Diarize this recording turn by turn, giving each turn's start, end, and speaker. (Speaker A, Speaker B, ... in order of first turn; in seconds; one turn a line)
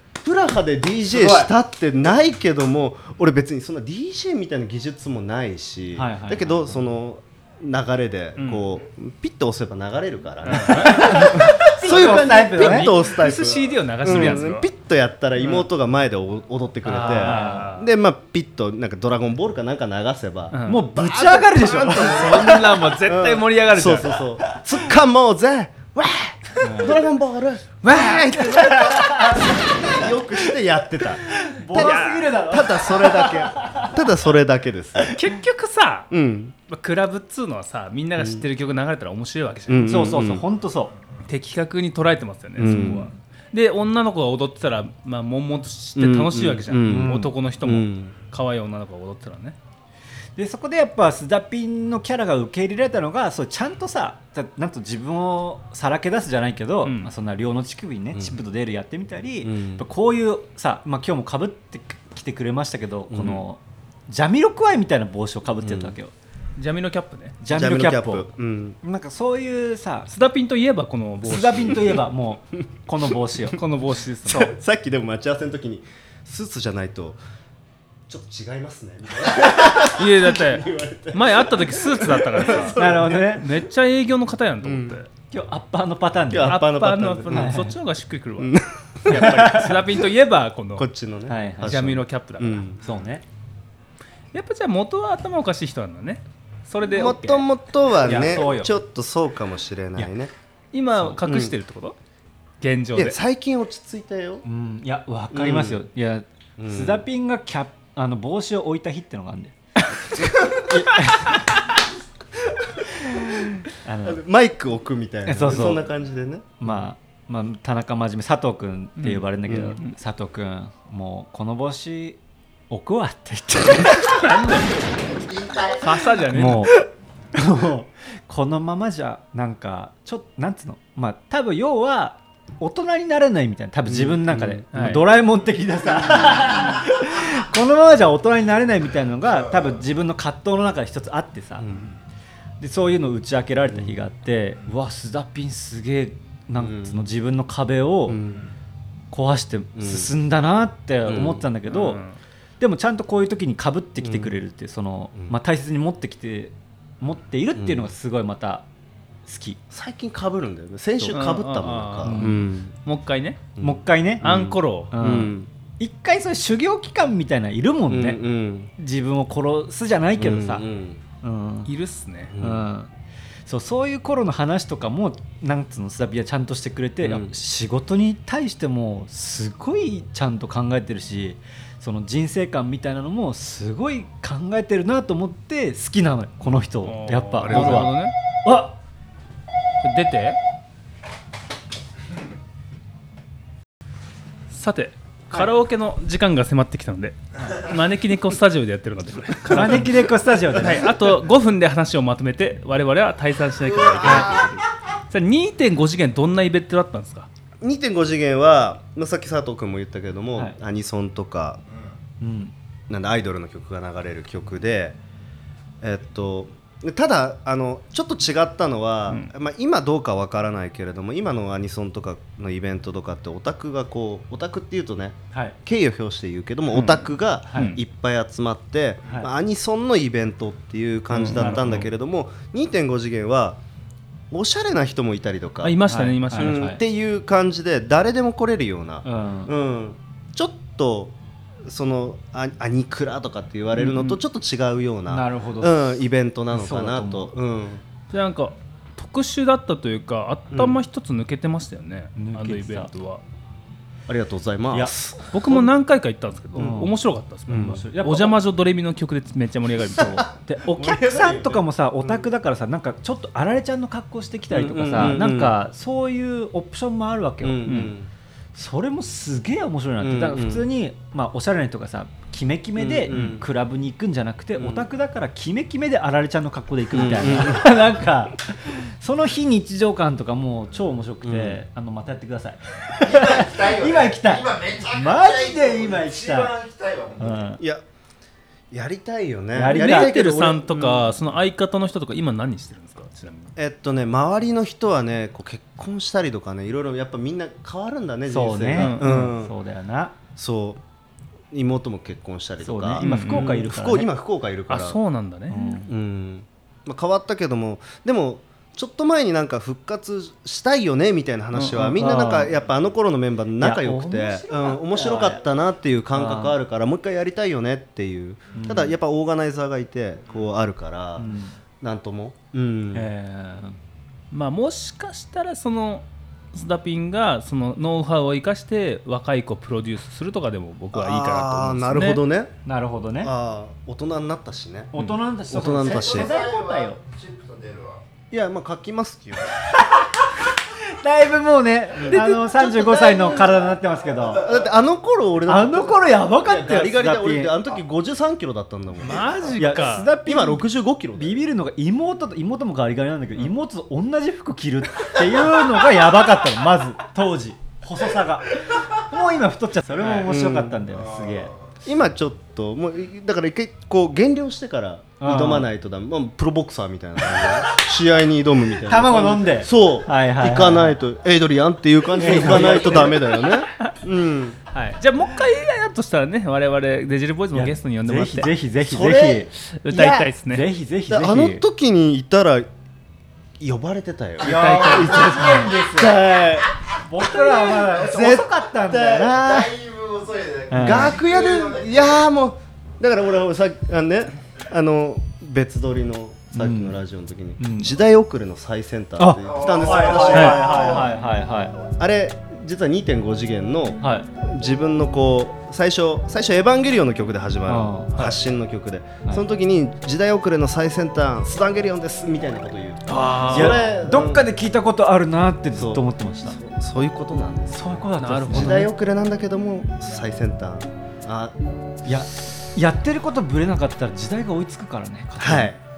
Speaker A: 0.2-35.2
Speaker B: 6.0-6.8
Speaker C: 8.4-8.7
Speaker C: 10.5-11.2
Speaker B: 10.7-13.0
Speaker C: 12.6-14.7
Speaker B: 16.9-17.7
Speaker C: 16.9-17.9
Speaker C: 20.5-20.9
Speaker B: 20.7-23.1
Speaker C: 22.0-24.2
Speaker B: 26.6-27.0
Speaker B: 27.9-30.1
Speaker C: 27.9-28.3
Speaker B: 31.2-34.0
Speaker C: 31.7-32.3
Speaker C: 35.1-36.1
Speaker A: 36.1-36.5
Speaker C: 36.7-39.9
Speaker A: 38.2-38.5
Speaker A: 39.7-40.4
Speaker B: 39.8-40.9
Speaker C: 41.3-49.6
Speaker A: 42.6-43.1
Speaker B: 42.7-43.1
Speaker A: 46.0-48.2
Speaker B: 46.8-47.3
Speaker B: 50.4-66.1
Speaker C: 56.8-57.1
Speaker A: 59.4-59.9
Speaker A: 63.1-63.4
Speaker A: 65.6-66.0
Speaker C: 66.6-67.4
Speaker B: 67.4-68.3
Speaker A: 67.5-68.8
Speaker B: 68.8-70.1
Speaker C: 70.1-71.9
Speaker B: 71.2-73.6
Speaker C: 73.5-74.5
Speaker A: 74.3-77.2
Speaker A: 78.1-83.4
Speaker C: 79.7-85.1
Speaker B: 82.8-83.5
Speaker A: 84.6-85.0
Speaker B: 85.3-86.6
Speaker A: 86.3-87.6
Speaker C: 86.5-90.9
Speaker B: 87.3-87.7
Speaker A: 88.4-89.5
Speaker B: 89.1-89.8
Speaker A: 90.8-92.8
Speaker B: 91.3-91.8
Speaker C: 91.6-92.7
Speaker B: 92.8-93.3
Speaker C: 94.3-97.5
Speaker A: 96.9-100.3
Speaker B: 98.0-98.8
Speaker C: 98.0-98.5
Speaker C: 100.7-102.0
Speaker A: 101.1-101.5
Speaker C: 102.6-103.2
Speaker A: 103.0-104.5
Speaker B: 104.5-109.5
Speaker A: 105.3-105.8
Speaker A: 106.6-107.0
Speaker B: 110.5-111.7
Speaker B: 113.0-114.2
Speaker A: 114.0-116.9
Speaker B: 115.3-115.9
Speaker B: 116.6-122.2
Speaker C: 119.0-119.9
Speaker A: 119.5-119.8
Speaker B: 122.7-124.5
Speaker C: 124.0-124.7
Speaker C: 125.7-126.7
Speaker B: 126.3-126.8
Speaker B: 127.3-141.7
Speaker A: 133.9-134.7
Speaker C: 134.7-135.1
Speaker A: 141.6-141.9
Speaker B: 142.6-148.2
Speaker A: 146.6-147.1
Speaker A: 148.1-148.5
Speaker B: 149.1-152.0
Speaker A: 149.8-150.2
Speaker A: 151.1-151.5
Speaker C: 151.7-152.2
Speaker B: 152.6-158.7
Speaker A: 154.0-154.4
Speaker A: 157.6-157.9
Speaker B: 159.3-159.6
Speaker A: 159.7-162.8
Speaker C: 161.1-163.4
Speaker B: 162.0-162.4
Speaker A: 163.6-165.5
Speaker B: 163.6-164.3
Speaker C: 164.2-164.9
Speaker B: 164.9-168.2
Speaker A: 167.9-168.7
Speaker B: 168.8-170.7
Speaker A: 170.2-171.0
Speaker B: 171.2-171.7
Speaker C: 171.7-172.3
Speaker A: 172.3-172.7
Speaker B: 172.4-172.9
Speaker B: 173.5-188.7
Speaker A: 177.0-177.3
Speaker C: 186.8-188.2
Speaker A: 187.4-187.9
Speaker C: 189.8-190.4
Speaker C: 194.5-207.3
Speaker B: 199.5-200.9
Speaker A: 207.6-211.6
Speaker B: 212.2-212.5
Speaker A: 212.9-215.0
Speaker A: 215.8-233.6
Speaker B: 225.3-225.6
Speaker C: 226.7-227.8
Speaker B: 229.1-229.3
Speaker C: 231.1-231.8
Speaker B: 231.4-231.9
Speaker A: 234.3-247.8
Speaker C: 235.6-236.6
Speaker B: 235.9-236.8
Speaker B: 239.0-239.5
Speaker C: 243.8-244.2
Speaker B: 245.1-246.0
Speaker B: 246.5-247.3
Speaker C: 248.1-253.2
Speaker A: 250.5-250.8
Speaker B: 252.2-252.9
Speaker A: 254.1-255.7
Speaker C: 255.3-260.2
Speaker A: 256.6-256.9
Speaker B: 256.6-256.9
Speaker A: 257.5-257.8
Speaker B: 257.5-258.4
Speaker B: 259.9-267.9
Speaker A: 260.0-262.3
Speaker A: 264.5-265.6
Speaker A: 267.4-268.1
Speaker C: 267.7-267.9
Speaker B: 268.6-287.6
Speaker A: 270.0-270.7
Speaker A: 272.8-273.4
Speaker C: 273.1-273.4
Speaker A: 274.6-274.9
Speaker A: 276.9-277.7
Speaker A: 281.2-281.6
Speaker D: 283.5-283.8
Speaker D: 286.5-287.1
Speaker A: 287.6-287.8
Speaker A: 288.7-291.2
Speaker B: 289.5-290.1
Speaker C: 289.7-293.5
Speaker A: 293.6-299.5
Speaker B: 298.3-300.1
Speaker C: 298.8-299.1
Speaker A: 300.4-300.8
Speaker A: 301.5-305.0
Speaker B: 302.6-304.1
Speaker C: 303.0-303.5
Speaker C: 304.7-305.7
Speaker B: 305.5-305.9
Speaker A: 305.8-321.3
Speaker C: 311.5-311.9
Speaker B: 311.8-312.6
Speaker B: 313.6-315.4
Speaker B: 316.1-316.6
Speaker B: 318.6-319.0
Speaker B: 321.2-321.5
Speaker A: 321.8-323.1
Speaker B: 322.9-323.8
Speaker C: 324.3-332.2
Speaker A: 330.9-332.5
Speaker B: 332.7-333.3
Speaker A: 333.2-334.9
Speaker B: 334.9-337.0
Speaker A: 335.5-336.4
Speaker D: 337.2-337.9
Speaker A: 338.3-339.5
Speaker B: 339.8-344.5
Speaker A: 342.0-343.7
Speaker C: 342.1-342.4
Speaker A: 344.4-349.6
Speaker B: 345.5-347.6
Speaker C: 349.0-350.1
Speaker B: 349.6-361.5
Speaker A: 350.2-351.4
Speaker A: 360.0-360.8
Speaker A: 361.8-374.6
Speaker B: 365.2-365.7
Speaker B: 368.9-371.0
Speaker B: 372.2-373.3
Speaker B: 374.7-375.0
Speaker C: 375.0-378.5
Speaker B: 377.5-381.6
Speaker A: 378.8-380.1
Speaker C: 379.5-380.7
Speaker A: 381.1-382.7
Speaker A: 383.6-389.3
Speaker C: 384.4-385.7
Speaker B: 384.4-386.2
Speaker B: 387.0-389.8
Speaker D: 389.4-391.3
Speaker B: 390.7-391.2
Speaker A: 390.8-401.1
Speaker B: 396.5-397.0
Speaker B: 397.6-398.0
Speaker B: 399.2-401.8
Speaker C: 400.3-400.6
Speaker A: 401.8-414.5
Speaker B: 404.0-404.3
Speaker B: 407.7-408.2
Speaker C: 408.2-408.4
Speaker C: 413.1-413.9
Speaker B: 413.4-416.6
Speaker A: 415.7-421.6
Speaker B: 417.7-418.9
Speaker C: 418.2-418.9
Speaker B: 422.1-425.8
Speaker A: 425.4-425.8